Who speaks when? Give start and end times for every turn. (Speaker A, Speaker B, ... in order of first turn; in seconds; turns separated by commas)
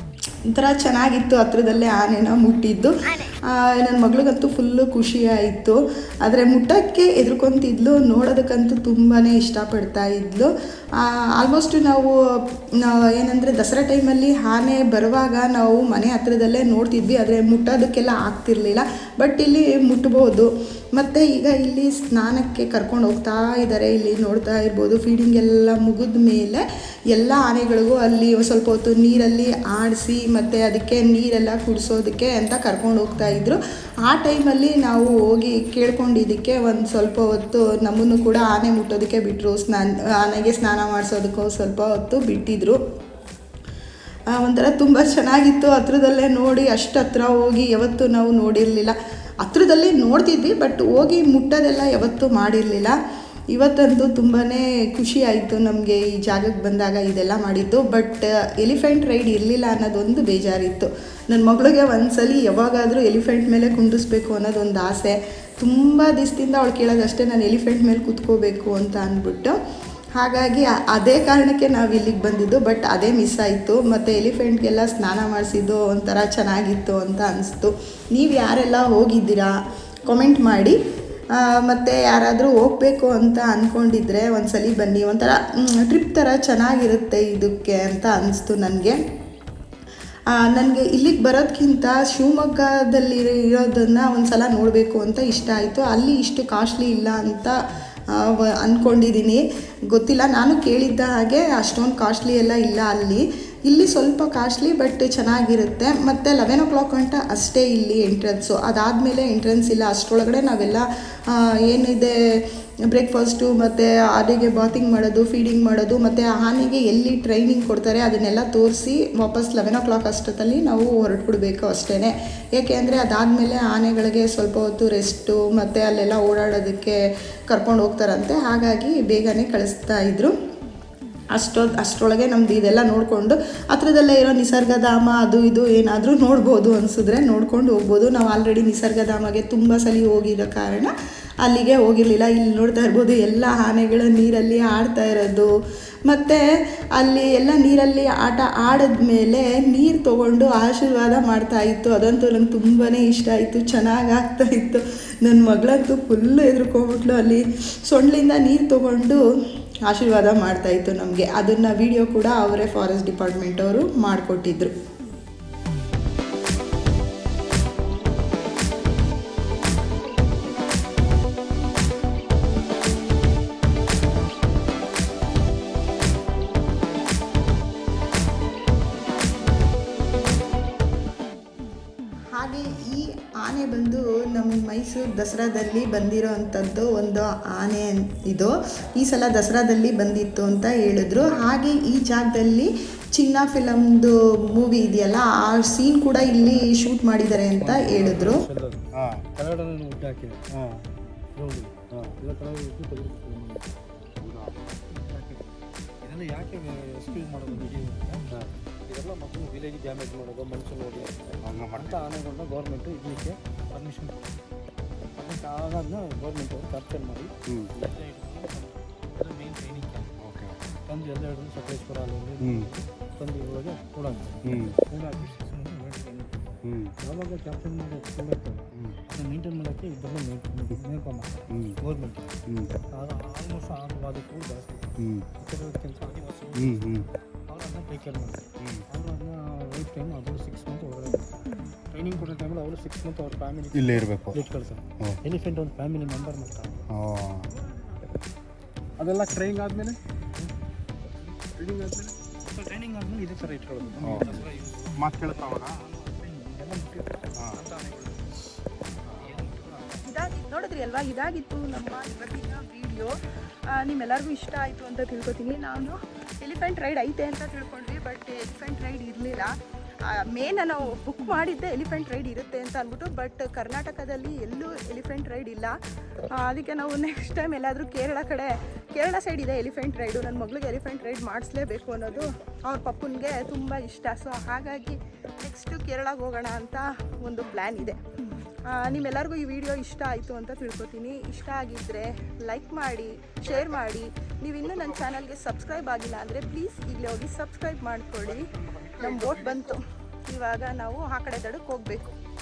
Speaker A: 0.5-42.8, Speaker A: 44.3-53.0, Speaker A: 53.5-69.6, Speaker A: 70.2-80.8, Speaker A: 81.4-89.0, Speaker A: 90.3-97.5, Speaker A: 98.1-130.3, Speaker A: 131.3-145.5, Speaker A: 146.1-146.4, Speaker A: 147.0-159.2, Speaker A: 159.9-164.7, Speaker A: 182.3-198.4, Speaker B: 197.6-200.4, Speaker C: 198.9-199.3, Speaker C: 200.6-200.8, Speaker B: 201.3-203.7, Speaker C: 201.9-202.2, Speaker C: 204.2-204.7, Speaker B: 204.9-205.4, Speaker B: 206.0-208.2, Speaker B: 208.9-214.2, Speaker C: 211.4-212.1, Speaker B: 215.2-220.1, Speaker C: 220.2-220.6, Speaker B: 220.9-232.4, Speaker C: 222.4-222.7, Speaker C: 224.4-224.8, Speaker C: 226.7-226.9, Speaker C: 231.5-231.8, Speaker C: 232.5-232.8, Speaker B: 232.9-236.9, Speaker C: 235.0-235.3, Speaker C: 236.6-237.1, Speaker B: 237.5-246.8, Speaker C: 238.6-238.8, Speaker C: 243.8-244.5, Speaker C: 246.9-247.5, Speaker C: 249.0-250.0, Speaker C: 251.6-252.2, Speaker B: 252.5-258.4, Speaker C: 254.0-255.8, Speaker B: 259.2-260.0, Speaker A: 260.0-263.1, Speaker A: 263.7-269.5, Speaker A: 270.1-275.8, Speaker A: 276.3-288.0, Speaker A: 288.6-302.2